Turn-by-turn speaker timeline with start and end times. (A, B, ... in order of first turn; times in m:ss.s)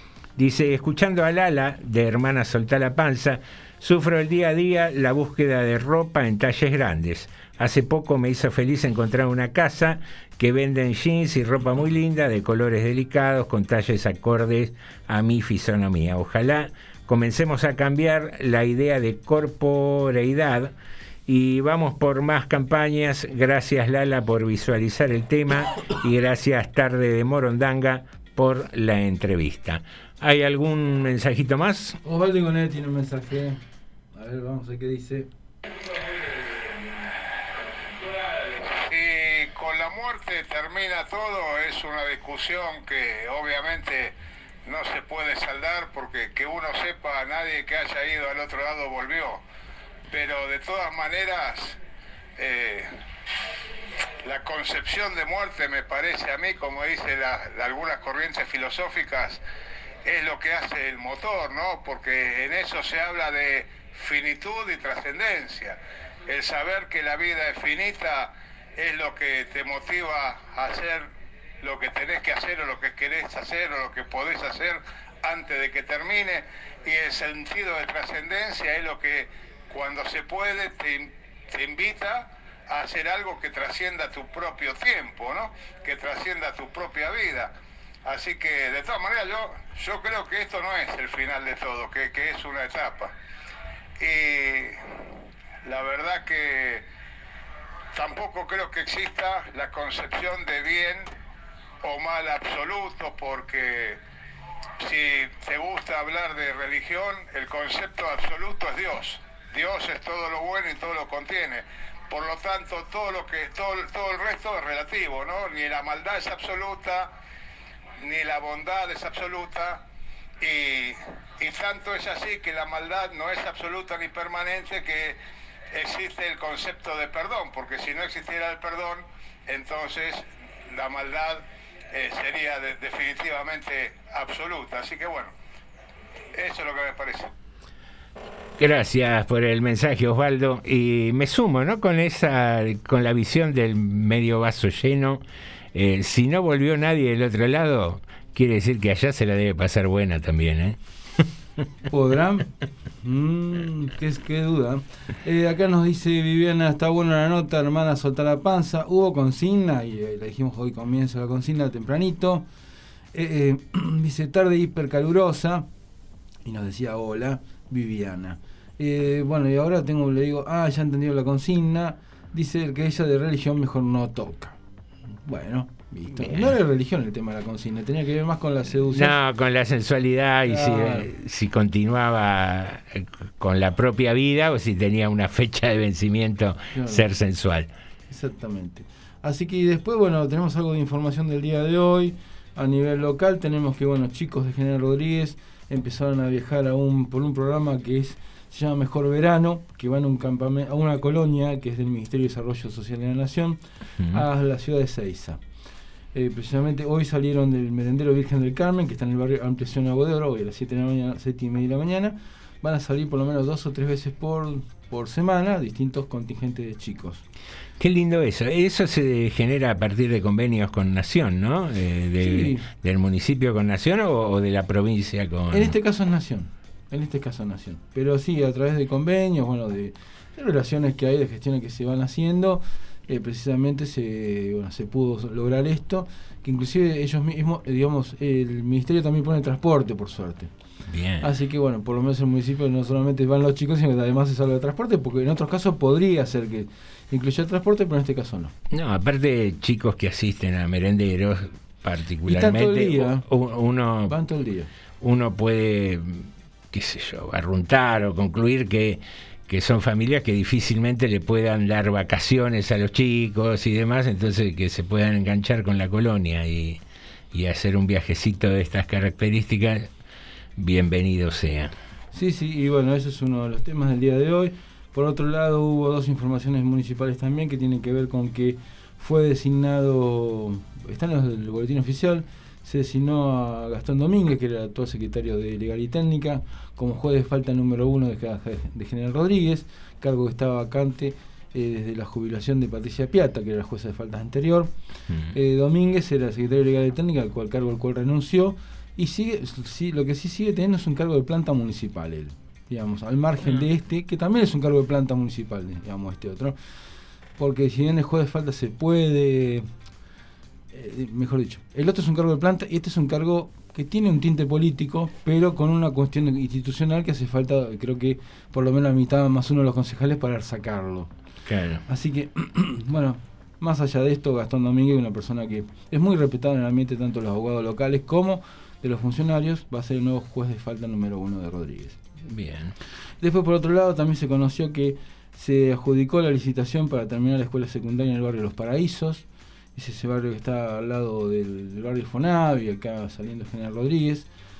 0:00.4-0:20.7 A
0:21.3-0:32.0 A
0:32.0-0:33.6 B
0:34.1-0:35.3 B
0:38.6-0:44.1 C
0:44.6-0:49.4 C
0:50.1-0:51.8 C
0:52.4-0:52.9 C
0:54.2-0:59.4 C
1:00.0-1:11.1 C
1:11.6-1:27.5 C
1:28.0-1:33.1 C
1:34.0-1:34.8 C
1:35.6-1:36.8 C
1:37.9-1:41.1 C
1:41.8-1:44.0 C
1:44.8-1:57.1 C
1:58.0-1:59.8 C
2:00.4-2:05.2 C
2:05.7-2:15.3 C
2:16.3-2:17.3 C
2:18.6-2:25.2 A
2:25.7-2:30.8 A
2:31.9-2:32.5 B
2:33.0-2:42.4 B
2:43.1-2:45.7 B
2:46.4-2:54.6 B
2:55.2-2:59.2 B
2:56.2-2:56.6 A
2:58.8-3:07.7 A
3:00.4-3:01.1 B
3:06.7-3:07.0 B
3:08.1-3:23.6 B
3:24.1-3:25.4 B
3:26.1-3:37.2 B
3:37.8-3:45.7 A
3:42.2-3:42.6 B
3:45.5-4:00.5 B
4:00.9-4:01.3 A
4:01.2-4:08.5 B
4:08.7-4:14.2 A
4:12.3-4:13.2 B
4:14.1-4:14.7 B
4:15.0-4:26.8 A
4:27.3-4:29.9 A
4:30.6-4:31.7 A
4:32.1-4:54.7 B
4:55.1-4:55.3 A
4:55.3-5:06.6 B
5:07.4-5:09.6 B
5:10.7-5:21.1 B
5:21.5-5:21.8 A
5:21.9-5:32.0 B
5:32.2-5:32.7 A
5:33.2-5:39.2 B
5:39.8-5:44.3 B